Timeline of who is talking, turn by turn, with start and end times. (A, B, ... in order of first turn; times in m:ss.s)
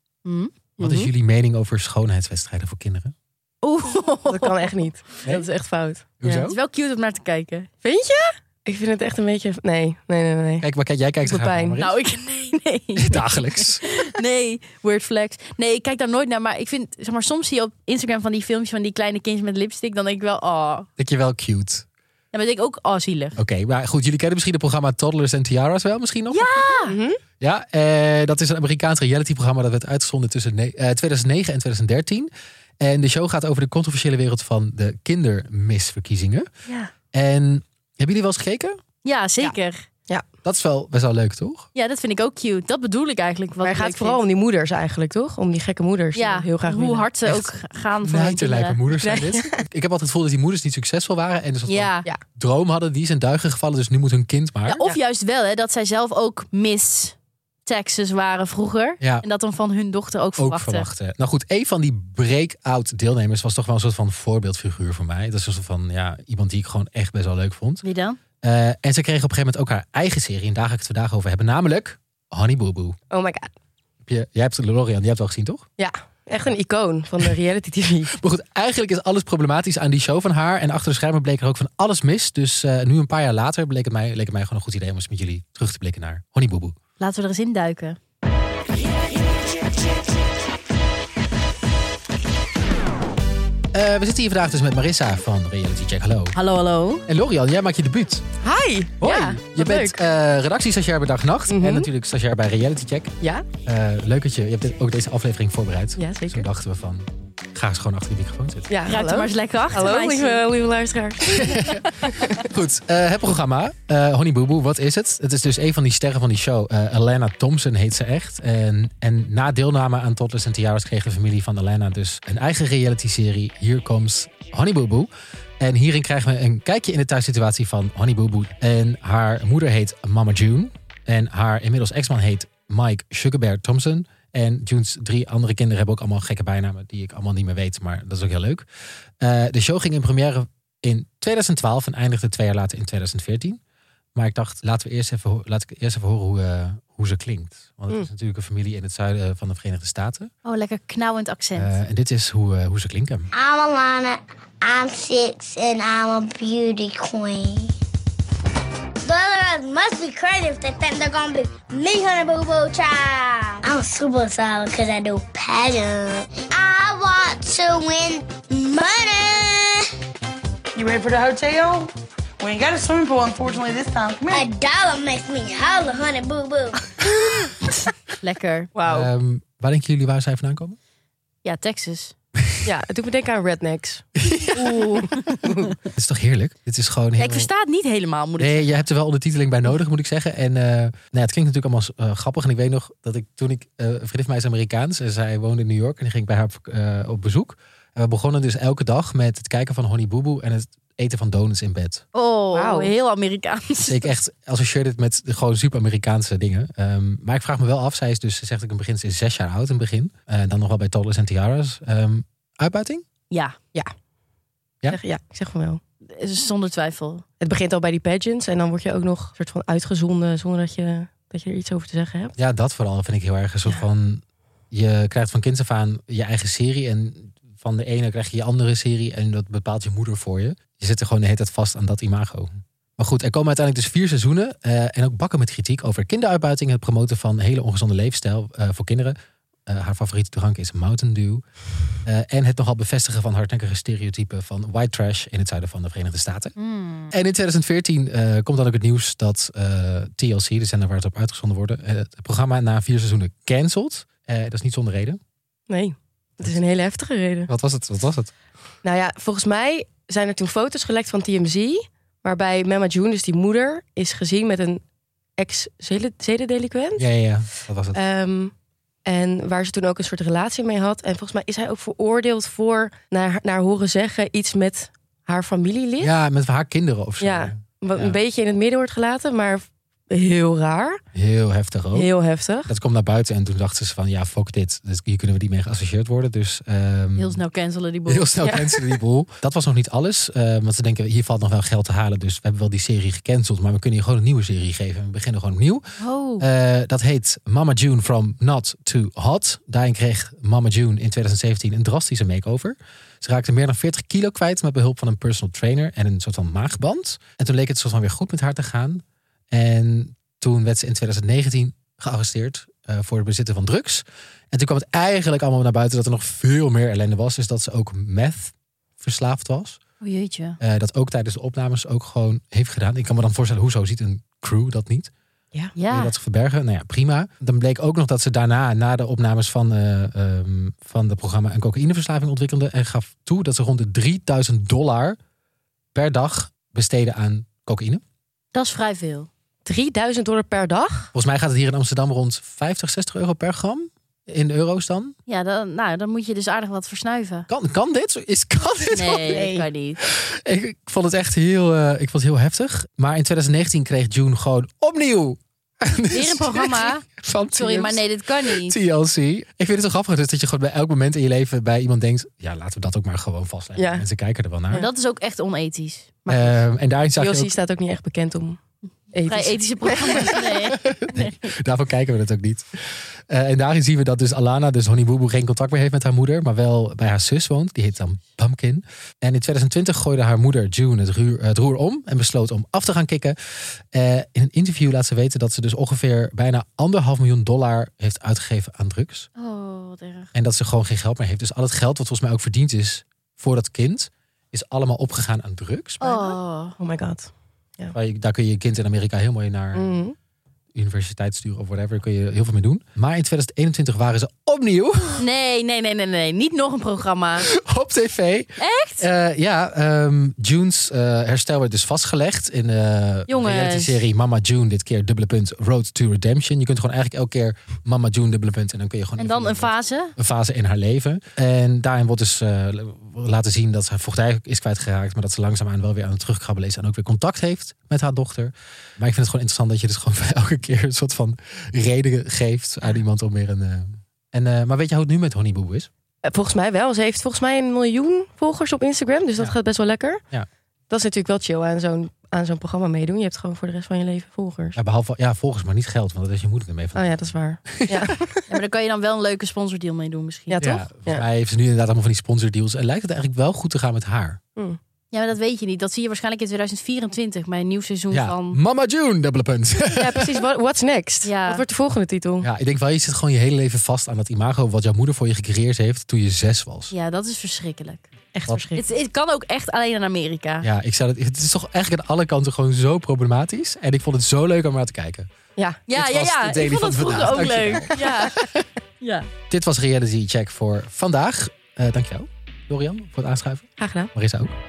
0:00.2-0:01.1 A
0:00.8-0:03.1 B
0:03.6-0:04.7 A
0:04.3-0:06.5 C
0:06.2-0:06.6 B
0:06.4-0:07.7 A
0:07.8-0:10.7 C
0:10.6-0:12.0 B
0:11.2-0:11.8 C
0:11.8-0:20.9 A
0:13.0-0:13.8 B
0:21.0-0:21.8 B
0:22.3-0:23.4 A
0:23.4-0:26.8 B
0:26.3-0:27.0 A
0:26.8-0:27.2 C
0:27.4-0:36.5 B
0:37.1-0:38.8 B
0:39.0-0:39.8 A
0:40.4-0:41.7 B
0:41.7-0:44.2 A
0:43.6-0:47.1 C
0:46.1-0:48.8 A
0:47.2-0:54.8 B
0:49.0-0:49.6 C
0:51.7-0:52.1 A
0:54.7-1:00.9 A
1:00.4-1:07.8 B
1:07.8-1:08.2 A
1:08.4-1:13.0 B
1:13.1-1:13.5 C
1:14.0-1:15.6 B
1:15.8-1:18.1 C
1:18.2-1:26.8 B
1:27.0-1:28.0 A
1:33.7-1:36.4 B
1:36.3-1:37.0 A
1:37.0-1:38.2 B
1:38.4-1:40.0 C
1:39.0-1:43.1 B
1:39.0-1:39.3 A
1:41.5-1:41.9 C
1:43.2-1:43.4 C
1:43.6-1:48.7 B
1:46.0-1:46.5 C
1:48.7-1:52.4 C
1:48.9-1:50.4 A
1:51.4-2:18.6 B
2:19.2-2:23.6 B
2:24.1-2:30.3 B
2:30.4-2:31.8 A
2:31.6-2:33.3 B
2:33.3-2:37.7 D
2:39.0-2:49.9 D
2:50.8-2:54.4 E
2:54.3-2:57.1 D
2:58.2-2:58.7 A
2:58.7-2:59.1 C
2:58.8-3:00.8 B
3:01.4-3:02.1 A
3:02.6-3:04.0 C
3:04.2-3:04.6 B
3:04.5-3:05.6 A
3:05.4-3:05.7 C
3:05.8-3:07.5 B
3:07.2-3:08.8 A
3:08.4-3:22.0 B
3:22.1-3:24.1 A
3:22.5-3:22.9 C
3:23.8-3:33.0 B
3:33.3-3:33.6 A
3:34.9-3:35.8 C
3:36.1-3:37.2 A
3:37.4-3:42.3 C
3:42.4-4:01.4 B
4:02.0-4:06.5 B
4:06.6-4:07.1 A
4:07.1-4:15.2 B
4:15.7-4:17.5 C
4:17.5-4:18.3 B
4:18.8-4:24.8 C
4:25.4-4:27.1 C
4:27.0-4:28.0 B
4:27.9-4:28.5 C
4:29.0-4:36.1 C
4:36.0-4:38.2 B
4:37.2-4:41.0 C
4:41.1-4:42.1 B
4:41.9-4:42.7 C
4:42.6-4:47.4 B
4:47.2-4:48.6 A
4:48.1-4:55.9 B
4:48.4-4:48.8 C
4:56.0-4:56.5 A
4:56.4-5:19.8 B
5:20.0-5:20.6 A
5:20.6-5:25.1 B
5:25.8-5:26.1 A
5:25.9-5:35.2 B
5:35.9-5:38.0 B
5:38.5-5:39.3 A
5:39.6-5:41.1 C
5:41.1-5:45.1 B
5:45.3-5:47.5 A
5:47.5-6:04.8 B
5:48.9-5:50.0 A
5:56.1-5:58.8 A
6:03.8-6:04.0 C
6:04.8-6:06.6 A
6:06.3-6:07.5 B
6:07.2-6:08.6 C
6:09.1-6:10.3 C
6:09.2-6:11.4 A
6:10.7-6:12.6 B
6:13.3-6:23.4 B
6:23.9-6:29.3 B
6:29.4-6:30.3 A
6:30.3-6:36.3 B
6:36.0-6:36.8 A
6:36.8-6:37.9 C
6:37.9-6:40.0 B
6:39.7-6:40.1 C
6:40.7-6:45.2 B
6:45.2-6:47.5 A
6:47.4-7:15.9 B
6:48.6-6:49.1 A
6:53.3-6:54.0 A
6:59.2-7:00.1 A
7:16.2-7:20.2 C
7:20.9-7:24.8 C
7:24.8-7:27.1 B
7:26.9-7:28.4 C
7:28.5-7:30.6 A
7:30.5-7:31.2 C
7:30.6-7:34.4 B
7:35.1-7:38.6 A
7:38.1-7:40.4 B
7:39.9-7:42.5 C
7:41.2-7:41.6 A
7:42.4-7:46.9 B
7:46.9-7:48.1 A
7:48.3-7:48.8 C
7:48.8-7:50.7 A
7:50.6-7:55.3 B
7:55.6-7:55.8 C
7:55.9-7:58.4 A
7:55.9-7:58.6 B
7:59.0-7:59.3 A
7:59.5-8:04.6 B
8:03.8-8:04.1 C